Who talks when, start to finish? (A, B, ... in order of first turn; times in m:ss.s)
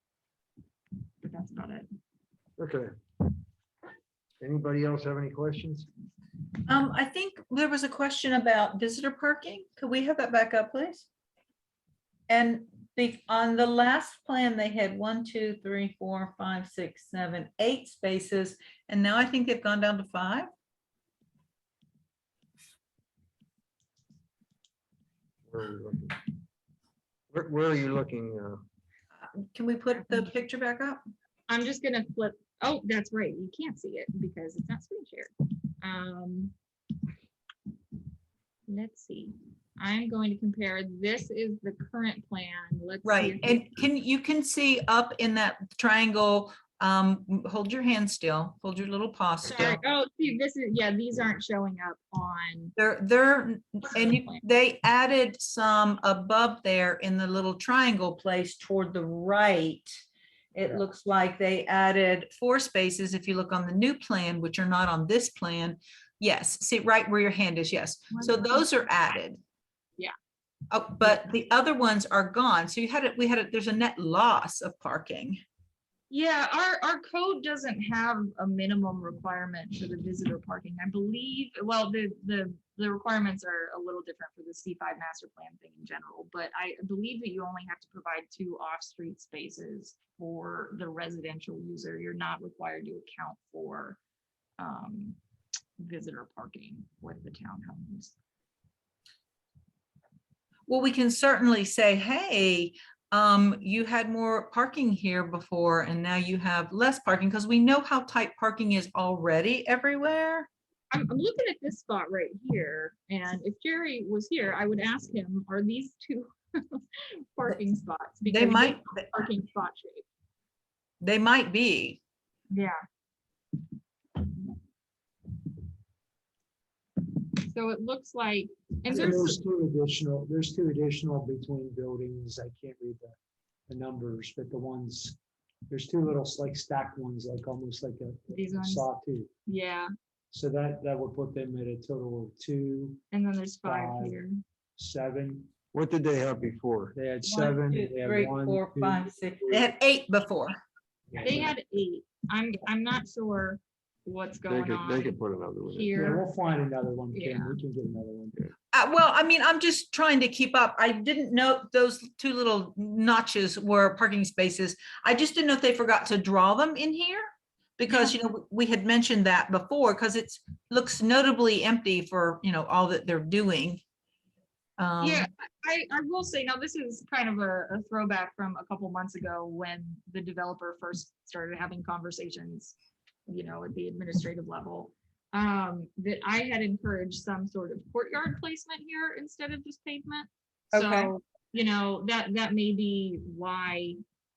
0:01.2-0:01.9 A
0:02.6-0:02.9 B
0:04.4-0:05.9 B
0:06.7-0:11.0 C
0:12.3-0:20.5 C
0:25.5-0:26.2 B
0:27.3-0:28.6 B
0:29.2-0:31.0 C
0:31.5-0:36.5 A
0:38.7-0:43.6 A
0:43.0-0:49.8 C
0:49.5-0:52.7 A
0:52.8-1:00.0 C
0:53.9-0:54.4 A
1:00.5-1:09.4 C
1:08.1-1:08.7 A
1:10.7-1:15.4 C
1:16.1-1:34.0 A
1:34.6-1:35.2 A
1:35.8-1:38.1 A
1:40.7-1:50.5 C
1:50.9-2:00.1 A
1:58.3-1:59.3 C
2:01.0-2:02.0 C
2:07.4-2:09.4 A
2:08.9-2:13.2 D
2:13.7-2:15.2 D
2:15.7-2:19.3 D
2:18.3-2:18.9 A
2:19.4-2:19.9 A
2:20.3-2:23.0 D
2:23.1-2:24.4 A
2:23.6-2:24.2 D
2:24.8-2:25.5 D
2:25.7-2:27.0 B
2:26.9-2:29.7 D
2:27.2-2:30.6 C
2:31.1-2:31.5 D
2:31.2-2:35.2 A
2:34.5-2:35.9 B
2:35.7-2:36.2 A
2:35.9-2:38.5 D
2:37.1-2:37.6 A
2:38.7-2:53.8 C
2:47.9-2:48.1 A
2:54.8-2:55.2 C
2:55.0-3:02.8 A
3:03.3-3:14.0 A
3:10.7-3:11.1 C